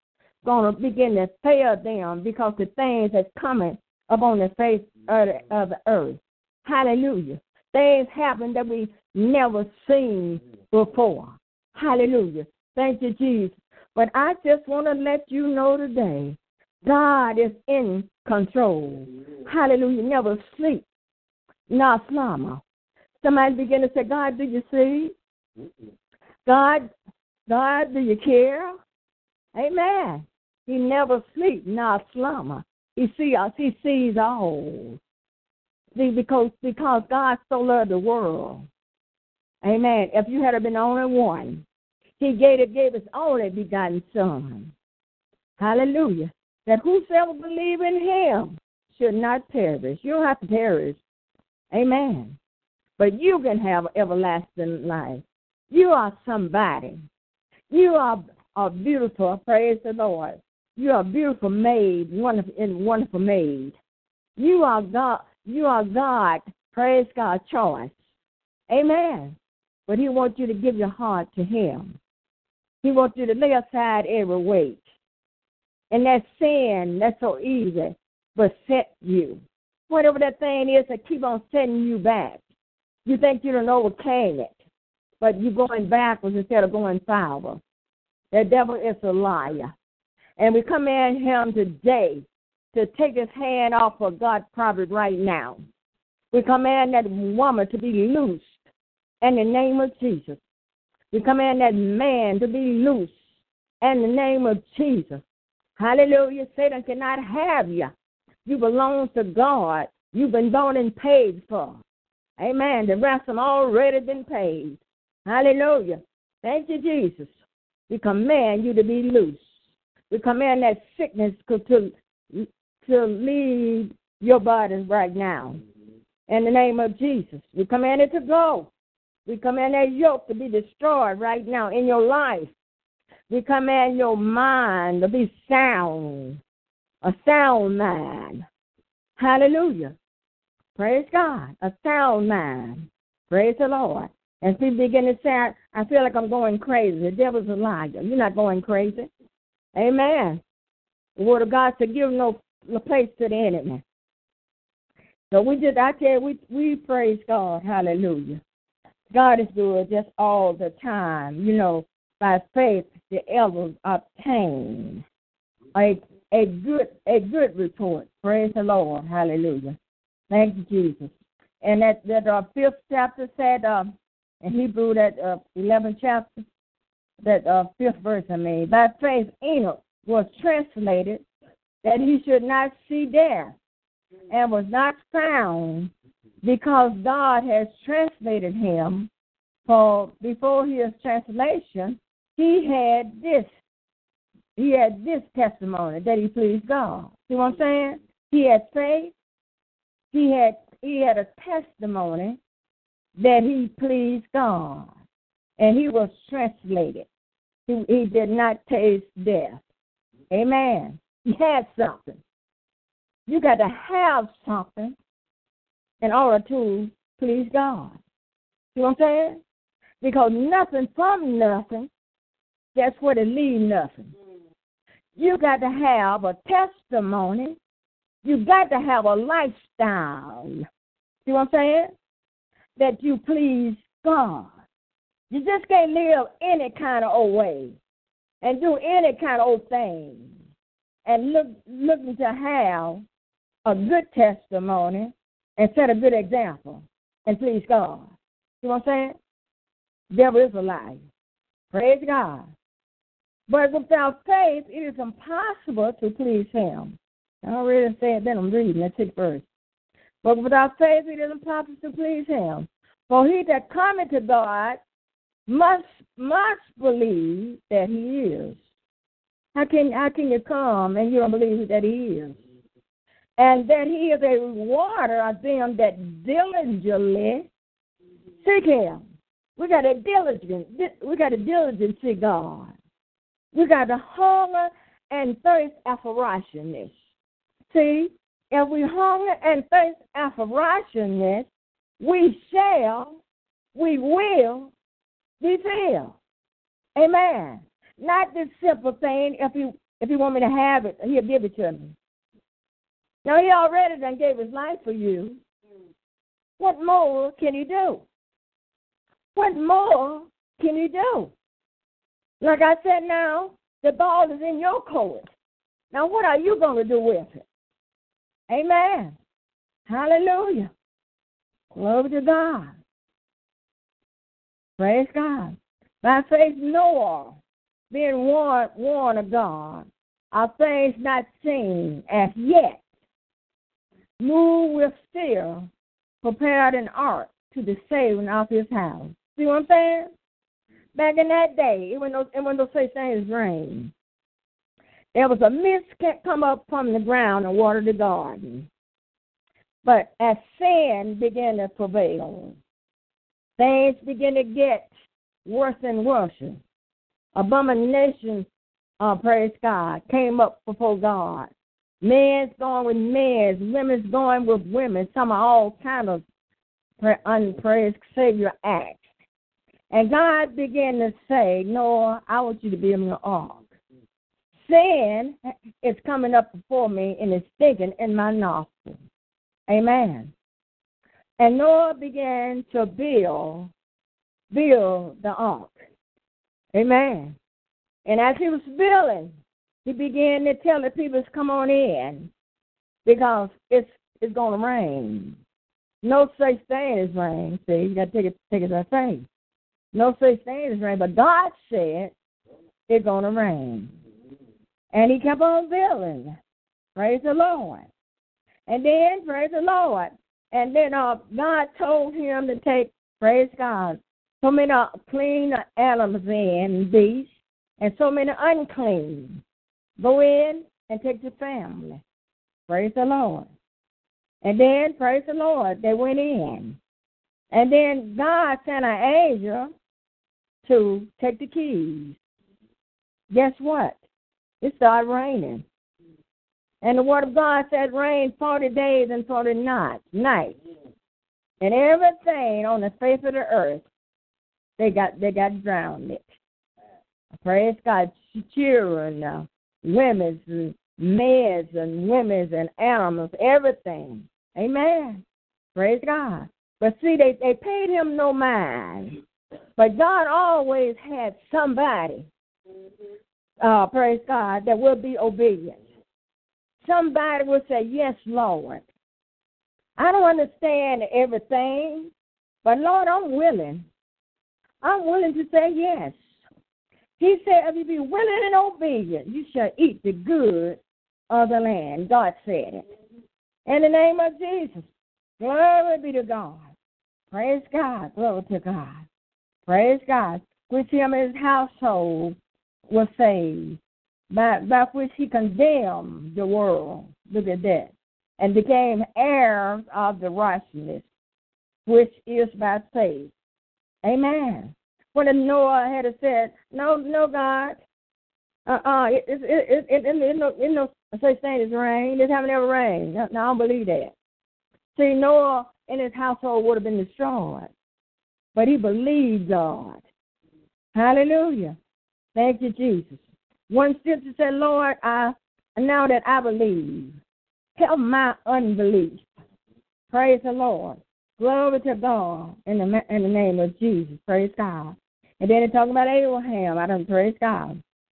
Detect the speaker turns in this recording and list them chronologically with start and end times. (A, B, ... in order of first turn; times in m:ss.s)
0:00.4-0:20.8 A
0:21.7-0:22.6 A
0:23.2-0:25.1 A
0:26.5-0:26.9 A
0:27.5-0:28.7 A
0:29.6-0:35.0 A
0:36.0-0:38.7 A
0:39.6-0:41.6 A
0:42.2-0:44.7 A
0:45.6-0:51.0 A
0:51.7-0:52.4 A
0:53.0-0:57.0 A
0:57.7-1:03.8 A
1:04.4-1:08.0 A
1:08.7-1:09.4 A
1:09.9-1:12.0 A
1:12.8-1:14.9 A
1:15.9-1:22.4 A
1:23.1-1:24.6 A
1:25.2-1:27.6 A
1:28.3-1:29.7 A
1:30.4-1:35.6 A
1:36.3-1:38.6 A
1:39.2-1:40.4 A
1:41.1-1:43.2 A
1:43.8-1:45.2 A
1:45.8-1:47.9 A
1:48.4-1:51.8 A
1:52.4-1:57.3 A
1:57.9-1:59.4 A
2:00.1-2:05.6 A
2:06.3-2:08.7 A
2:09.2-2:12.5 A
2:13.3-2:16.4 A
2:17.0-2:18.4 A
2:19.2-2:19.9 A
2:20.8-2:29.1 A
2:29.8-2:30.4 A
2:31.2-2:33.8 A
2:35.3-2:38.4 A
2:39.1-2:45.0 A
2:45.8-2:49.8 A
2:50.3-2:51.1 A
2:51.6-2:53.9 A
2:54.4-2:56.4 A
2:57.2-3:01.2 A
3:01.8-3:03.6 A
3:04.3-3:05.9 A
3:06.4-3:09.1 A
3:09.7-3:13.5 A
3:14.6-3:19.1 A
3:20.1-3:22.4 A
3:23.2-3:24.9 A
3:25.6-3:27.1 A
3:27.7-3:29.6 A
3:30.3-3:32.2 A
3:33.3-3:35.0 A
3:36.0-3:38.0 A
3:38.8-3:39.4 A
3:40.0-3:41.9 A
3:42.8-3:44.1 A
3:45.2-3:47.6 A
3:48.2-3:50.6 A
3:51.2-3:51.9 A
3:52.8-3:54.5 A
3:55.3-3:57.8 A
3:58.4-4:00.3 A
4:01.1-4:03.0 A
4:03.6-4:08.1 A
4:08.6-4:09.2 A
4:10.1-4:11.0 A
4:11.7-4:12.5 A
4:13.5-4:19.4 A
4:20.2-4:24.8 A
4:25.5-4:28.6 A
4:29.6-4:32.4 A
4:33.4-4:37.5 A
4:38.4-4:39.0 A
4:39.6-4:42.7 A
4:43.5-4:46.9 A
4:47.7-4:51.5 A
4:52.0-4:53.2 A
4:53.8-4:54.7 A
4:55.4-4:56.2 A
4:57.0-5:01.9 A
5:03.2-5:05.4 A
5:06.6-5:08.0 A
5:09.4-5:11.3 A
5:12.4-5:15.3 A
5:15.9-5:17.4 A
5:18.5-5:19.2 A
5:19.9-5:20.7 A
5:21.7-5:22.7 A
5:24.8-5:27.4 A
5:27.9-5:32.8 A
5:34.2-5:35.7 A
5:36.2-5:40.1 A
5:40.9-5:43.9 A
5:45.1-5:48.7 A
5:49.8-5:52.6 A
5:53.6-5:54.9 A
5:55.5-5:56.6 A
5:57.4-5:58.5 A
5:59.0-6:01.5 A
6:02.0-6:06.2 A
6:07.0-6:09.0 A
6:09.9-6:13.6 A
6:14.6-6:19.0 A
6:19.7-6:20.3 A
6:21.4-6:23.7 A
6:24.5-6:25.8 A
6:26.7-6:27.4 A
6:28.0-6:29.3 A
6:29.8-6:32.3 A
6:33.0-6:35.4 A
6:36.0-6:39.3 A
6:39.9-6:42.1 A
6:42.9-6:43.9 A
6:44.9-6:46.4 A
6:47.0-6:47.9 A
6:48.7-6:59.4 A
7:00.0-7:02.0 A
7:02.7-7:03.5 A
7:04.4-7:06.8 A
7:07.5-7:09.7 A
7:10.6-7:12.2 A
7:13.3-7:14.0 A
7:14.6-7:15.6 A
7:16.8-7:20.6 A
7:21.6-7:23.8 A
7:24.8-7:26.3 A
7:27.4-7:35.2 A
7:35.8-7:39.2 A
7:39.8-7:42.3 A
7:43.6-7:45.8 A
7:46.8-7:48.8 A
7:50.0-7:52.1 A
7:52.6-7:53.9 A
7:54.8-7:56.2 A
7:57.2-8:00.8 A
8:01.3-8:02.8 A
8:03.6-8:04.8 A
8:05.4-8:06.7 A
8:07.3-8:09.0 A
8:09.7-8:12.4 A
8:12.9-8:13.8 A
8:14.3-8:21.0 A
8:21.9-8:23.3 A
8:24.0-8:27.8 A
8:28.6-8:34.1 A
8:34.9-8:37.7 A
8:38.6-8:40.0 A
8:40.9-8:41.8 A
8:42.4-8:47.2 A
8:47.8-8:49.2 A
8:50.1-8:57.8 A